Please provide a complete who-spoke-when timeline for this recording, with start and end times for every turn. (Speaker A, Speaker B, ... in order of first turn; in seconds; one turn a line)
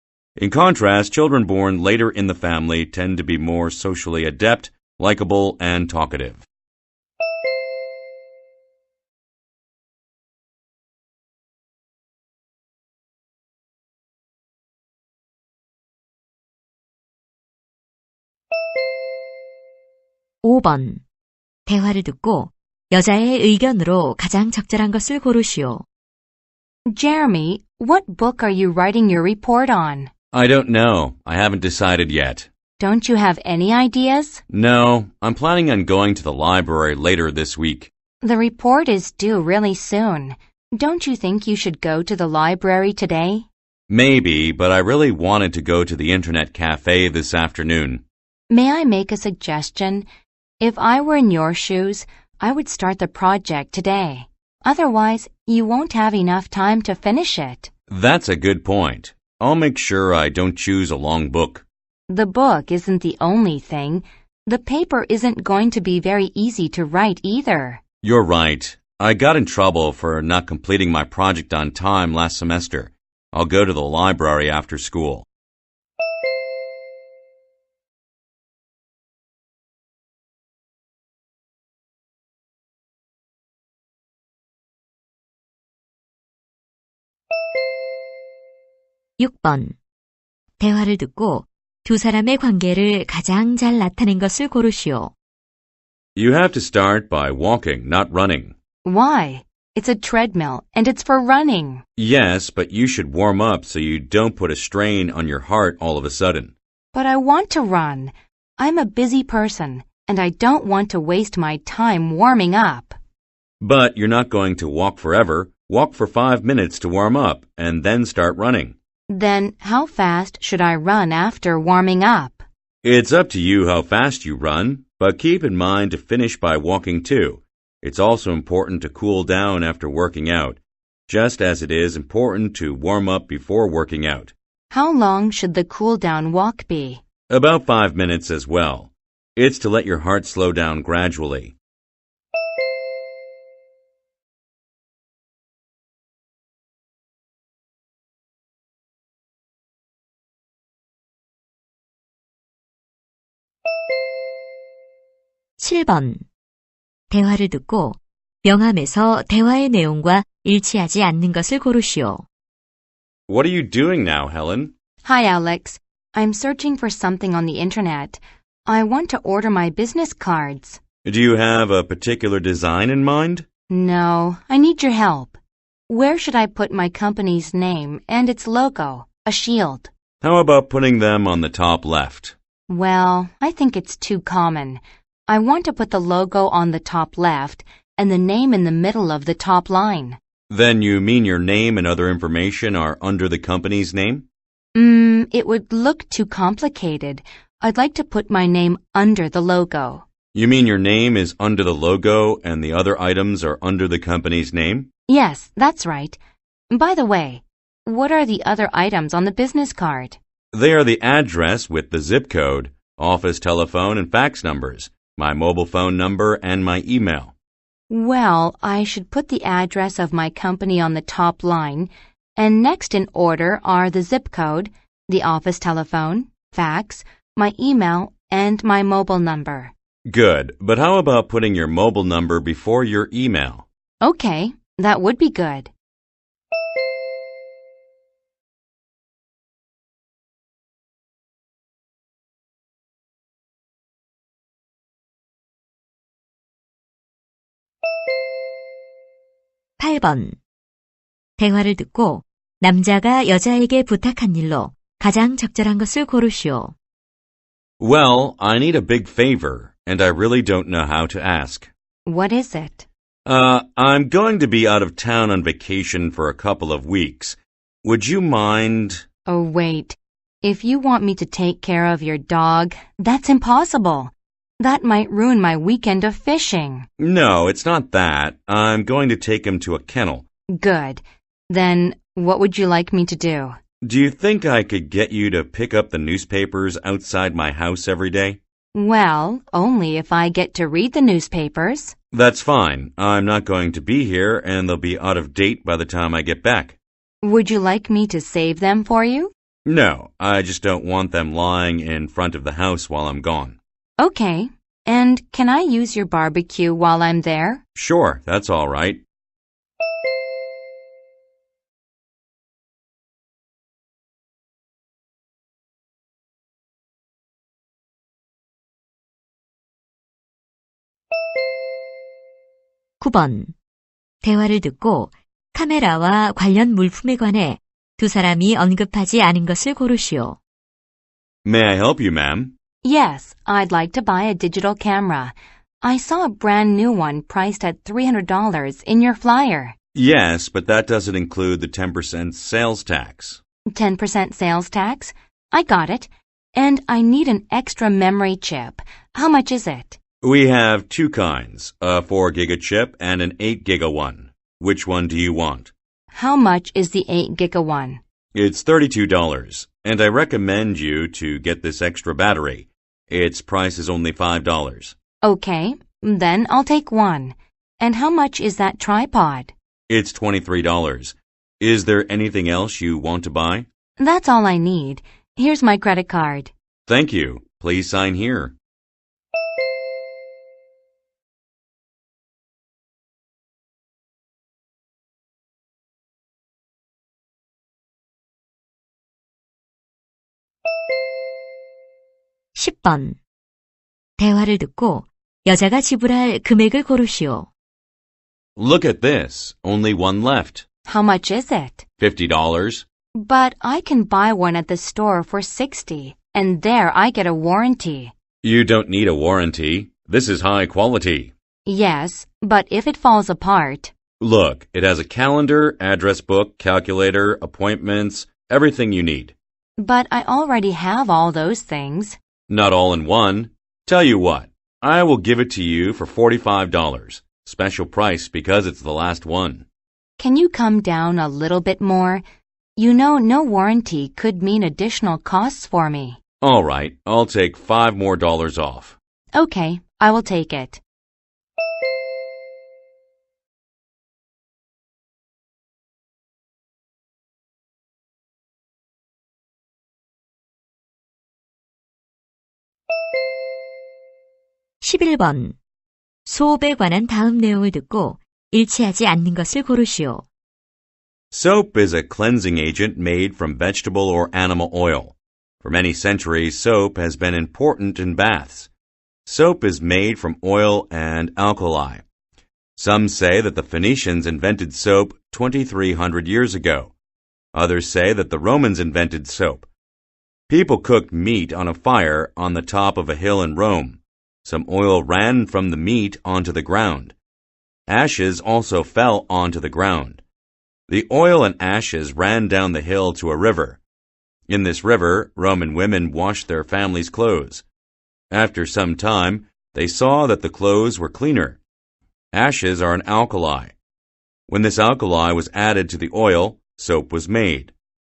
Speaker A: 0.4-6.5
Speaker B: 20.4-21.0
Speaker B: 21.7-25.8
Speaker C: 26.9-30.1
Speaker A: 30.3-32.5
Speaker C: 32.8-34.4
Speaker A: 34.5-37.9
Speaker C: 38.2-43.5
Speaker A: 43.9-48.0
Speaker C: 48.5-50.1
Speaker C: 50.6-57.7
Speaker A: 57.9-61.6
Speaker C: 62.1-67.8
Speaker A: 68.0-75.2
Speaker B: 89.2-89.8
Speaker B: 90.6-95.1
Speaker A: 96.2-98.5
Speaker C: 98.8-101.8
Speaker A: 102.0-106.5
Speaker C: 106.9-113.0
Speaker A: 113.6-118.8
Speaker C: 119.1-122.5
Speaker A: 122.8-134.3
Speaker C: 134.7-137.0
Speaker A: 137.3-141.5
Speaker B: 155.6-156.2
Speaker B: 157.1-162.2
Speaker A: 163.3-164.7
Speaker C: 165.0-170.8
Speaker A: 171.0-173.5
Speaker C: 173.7-175.4
Speaker C: 175.9-179.9
Speaker A: 180.2-182.3
Speaker C: 182.7-190.2
Speaker A: 190.5-194.2
Speaker C: 194.8-200.0
Speaker A: 200.3-204.9
Speaker C: 205.1-206.2
Speaker C: 206.7-210.2
Speaker A: 210.5-217.3
Speaker C: 217.9-229.7
Speaker A: 230.1-233.7
Speaker C: 234.0-235.7
Speaker B: 249.8-250.4
Speaker B: 251.4-256.7
Speaker A: 257.8-261.7
Speaker C: 262.0-262.9
Speaker A: 263.2-269.0
Speaker C: 269.2-276.9
Speaker A: 277.0-280.2
Speaker C: 280.5-283.6
Speaker A: 283.8-288.4
Speaker C: 288.7-291.9
Speaker A: 292.1-296.8
Speaker C: 297.2-299.3
Speaker A: 299.6-303.6
Speaker C: 304.0-307.6
Speaker A: 307.8-309.0
Speaker B: 323.0-323.5
Speaker B: 324.2-330.4
Speaker A: 331.4-332.5
Speaker C: 332.8-339.8
Speaker A: 339.9-343.4
Speaker C: 343.7-350.0
Speaker A: 350.2-355.7
Speaker C: 356.1-358.0
Speaker A: 358.3-364.9
Speaker C: 365.2-369.5
Speaker A: 369.9-373.6
Speaker C: 374.0-376.5
Speaker A: 376.9-378.5
Speaker B: 392.5-393.2
Speaker B: 394.2-397.5
Speaker A: 398.6-400.6
Speaker C: 400.9-401.9
Speaker A: 402.0-402.9
Speaker C: 403.1-408.1
Speaker A: 408.4-411.3
Speaker C: 411.6-413.9
Speaker A: 414.2-419.4
Speaker C: 419.8-422.2
Speaker A: 422.5-429.6
Speaker C: 430.2-432.2
Speaker C: 432.8-436.2
Speaker A: 436.4-439.0
Speaker C: 439.3-440.8
Speaker B: 454.8-455.6
Speaker B: 456.2-460.2
Speaker A: 461.3-468.7
Speaker A: 469.2-472.0
Speaker A: 472.8-476.9
Speaker A: 477.5-479.6
Speaker A: 480.5-487.1
Speaker A: 487.9-490.2
Speaker A: 490.9-493.8
Speaker A: 494.5-497.6
Speaker A: 498.3-501.6
Speaker A: 502.3-503.7
Speaker A: 504.5-507.7